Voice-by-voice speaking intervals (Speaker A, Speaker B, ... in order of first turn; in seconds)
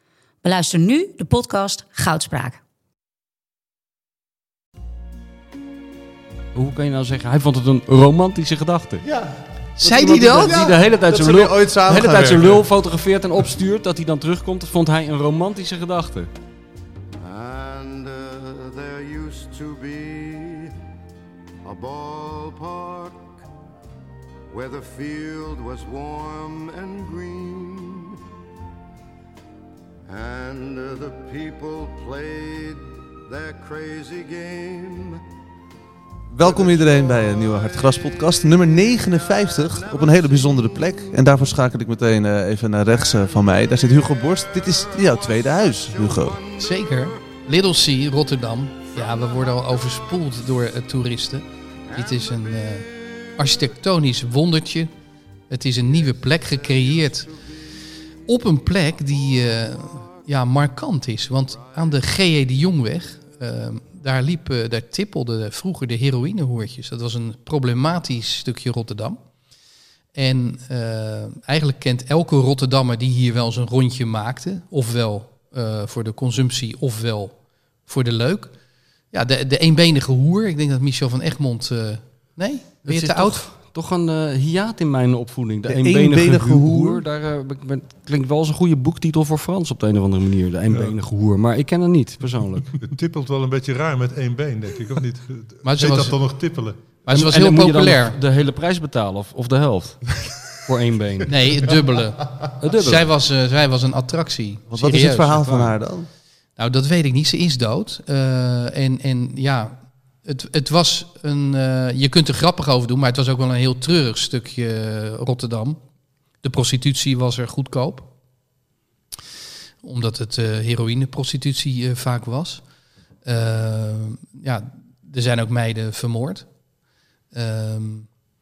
Speaker A: 0.4-2.6
Speaker B: 6.5-9.0, 10.1-16.3, 82.8-92.7, 97.0-101.3, 102.6-103.1
Speaker C: 9.0-12.6, 36.3-46.4, 85.7-87.0, 104.7-106.1
Speaker D: 9.8-10.6, 46.5-54.9, 55.5-57.3, 58.3-69.2, 70.1-77.3, 77.9-78.5, 79.1-83.5, 95.6-96.1, 97.1-98.2, 101.3-105.7, 106.6-109.7, 110.2-115.8, 116.4-118.1, 119.8-122.6, 123.2-126.5, 127.3-128.1
Speaker E: 17.2-20.7, 21.6-23.4, 24.5-28.1, 30.1-35.2, 36.4-36.8
Speaker F: 90.7-90.9, 92.7-96.8